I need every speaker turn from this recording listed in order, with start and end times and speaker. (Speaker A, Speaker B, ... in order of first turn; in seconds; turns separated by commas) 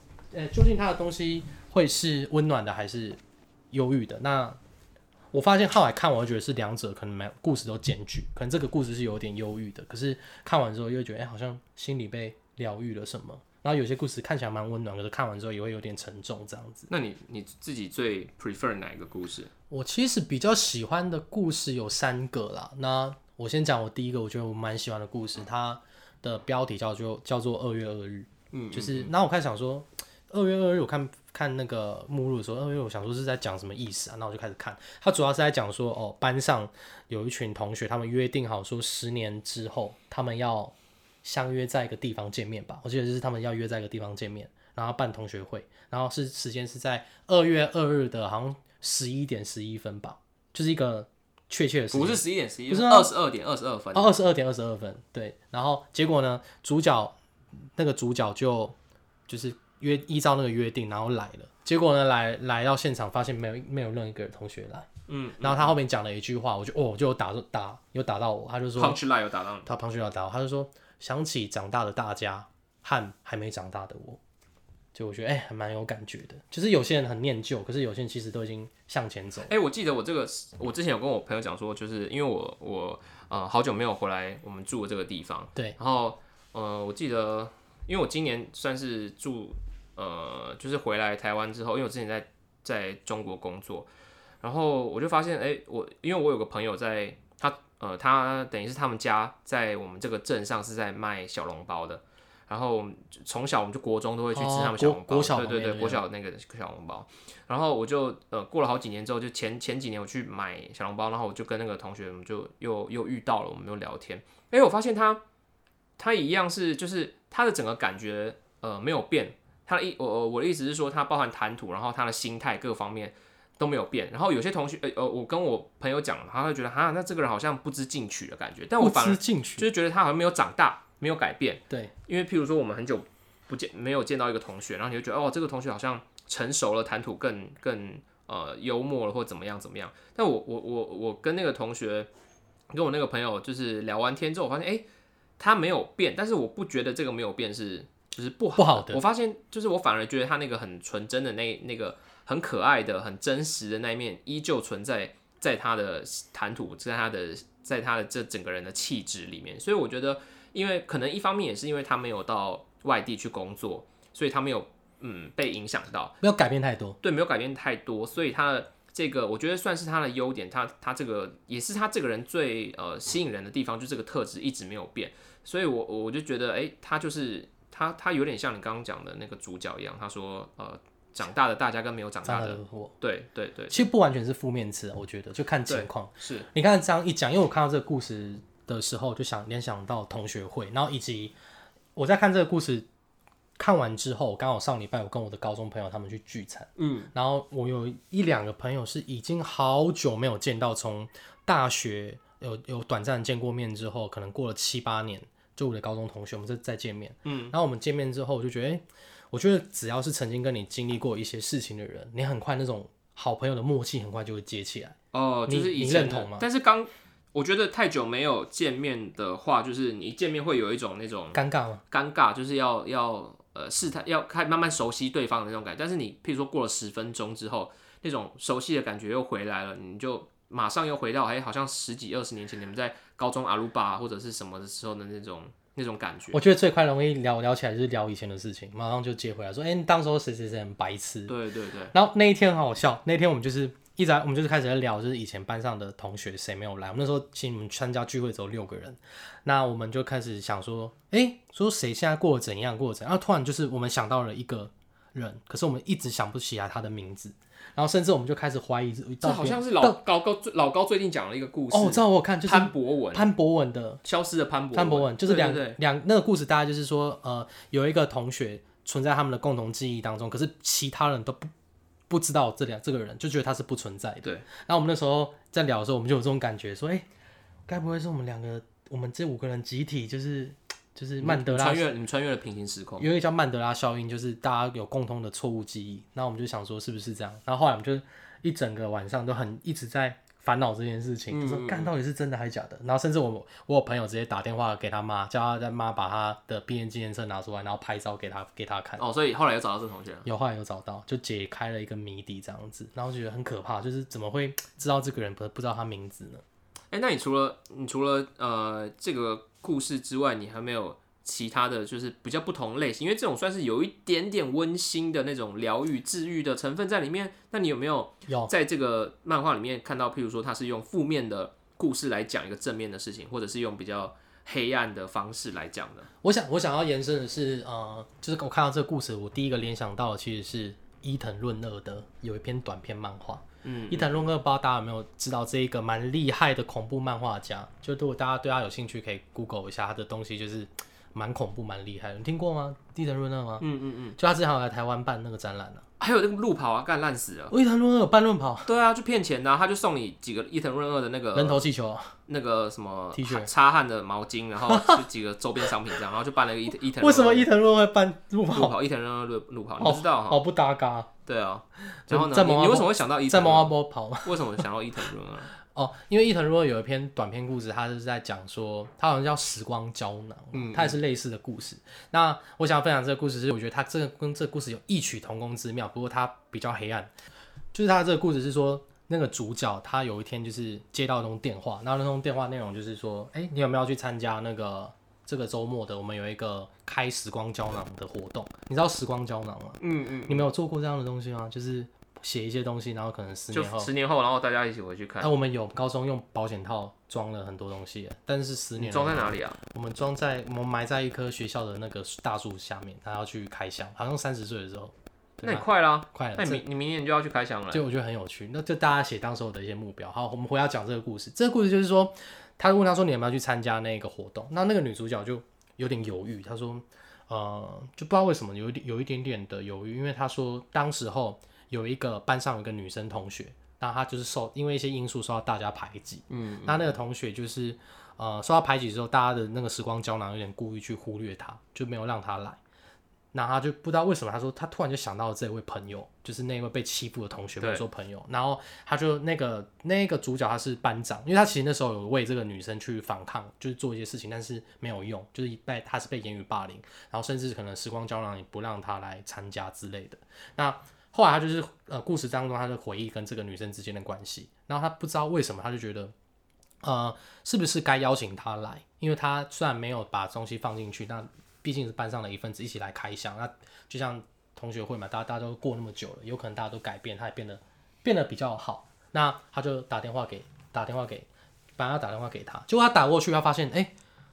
Speaker A: 0.3-3.2, Speaker A: 3.7-4.6, Speaker A: 5.3-16.9, Speaker B: 16.9-19.5, Speaker A: 19.7-53.1, Speaker B: 28.5-29.1, Speaker B: 51.9-54.1, Speaker A: 53.9-57.1, Speaker A: 57.8-58.7, Speaker A: 59.3-69.0, Speaker B: 65.1-65.7, Speaker B: 68.8-69.7, Speaker A: 69.6-74.2, Speaker A: 74.9-79.5, Speaker B: 79.5-93.9, Speaker B: 94.4-115.2, Speaker A: 104.3-106.0, Speaker B: 116.0-142.1, Speaker A: 128.8-129.7, Speaker B: 142.7-144.8, Speaker B: 145.4-166.2, Speaker A: 148.6-149.0, Speaker A: 166.2-167.0, Speaker B: 167.0-183.8, Speaker A: 182.2-182.9, Speaker A: 183.7-191.3, Speaker B: 185.7-186.5, Speaker A: 191.9-192.9, Speaker A: 193.6-214.9, Speaker B: 196.8-197.1, Speaker B: 207.2-207.5, Speaker B: 215.1-221.4, Speaker A: 215.5-216.4, Speaker A: 221.3-221.8, Speaker B: 221.9-236.4, Speaker A: 236.3-241.3, Speaker B: 241.3-241.9, Speaker A: 241.9-260.0, Speaker B: 259.2-263.3, Speaker A: 261.7-264.0, Speaker B: 264.0-265.8, Speaker A: 264.7-271.5, Speaker A: 272.1-277.1, Speaker A: 277.7-281.9, Speaker B: 281.2-283.1, Speaker A: 283.0-299.0, Speaker B: 291.3-291.9, Speaker B: 299.0-300.2, Speaker A: 300.2-306.4, Speaker B: 306.9-326.1, Speaker A: 318.3-318.5, Speaker A: 326.2-343.6, Speaker B: 333.6-334.1, Speaker B: 343.6-344.2, Speaker A: 344.2-345.8, Speaker B: 346.0-347.5, Speaker A: 347.5-348.7, Speaker B: 348.6-351.6, Speaker A: 351.3-352.1, Speaker B: 352.3-357.5, Speaker A: 353.1-353.5, Speaker A: 354.7-355.0, Speaker A: 357.0-358.7, Speaker B: 358.5-360.4, Speaker A: 359.8-361.1, Speaker B: 361.2-365.5, Speaker A: 362.1-364.6, Speaker A: 365.6-377.1, Speaker B: 370.5-371.0, Speaker A: 377.7-393.9, Speaker B: 389.8-390.5, Speaker B: 393.5-395.3, Speaker A: 395.2-406.6, Speaker B: 398.8-399.6, Speaker B: 405.4-407.8, Speaker A: 407.7-432.6, Speaker B: 426.3-426.9, Speaker A: 433.3-456.1, Speaker A: 456.8-471.3, Speaker A: 471.8-473.9